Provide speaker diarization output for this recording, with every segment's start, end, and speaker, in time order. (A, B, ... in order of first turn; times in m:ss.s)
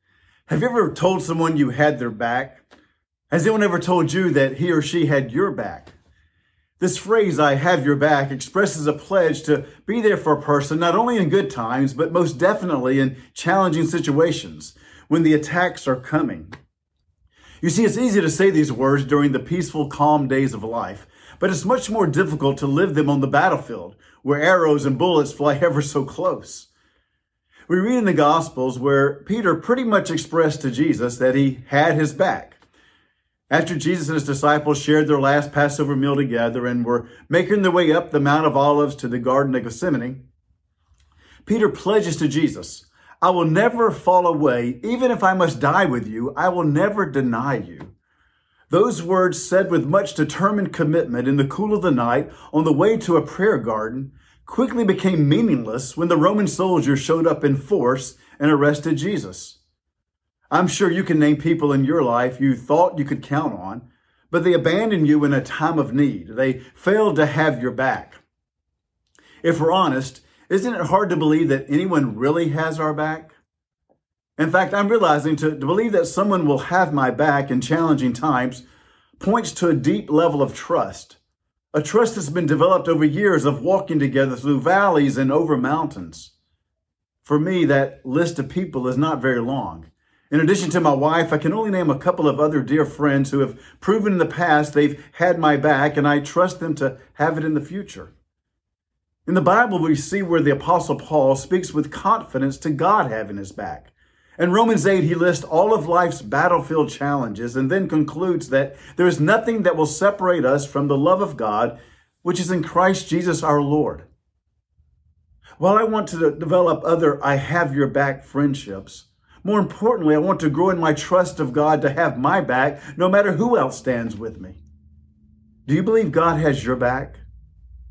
0:00.5-0:02.6 A
0:03.3-0:05.9 A
0:06.8-0:16.5 A
0:17.6-0:26.7 A
0:27.7-0:32.6 A
0:33.5-0:40.2 A
0:41.4-0:47.9 A
0:48.7-0:59.6 A
1:00.5-1:08.2 A
1:09.4-1:13.3 A
1:14.4-1:18.6 A
1:19.2-1:21.2 A
1:21.7-1:26.3 A
1:27.2-1:38.1 A
1:39.2-1:54.0 A
1:55.6-2:04.6 A
2:05.6-2:07.2 A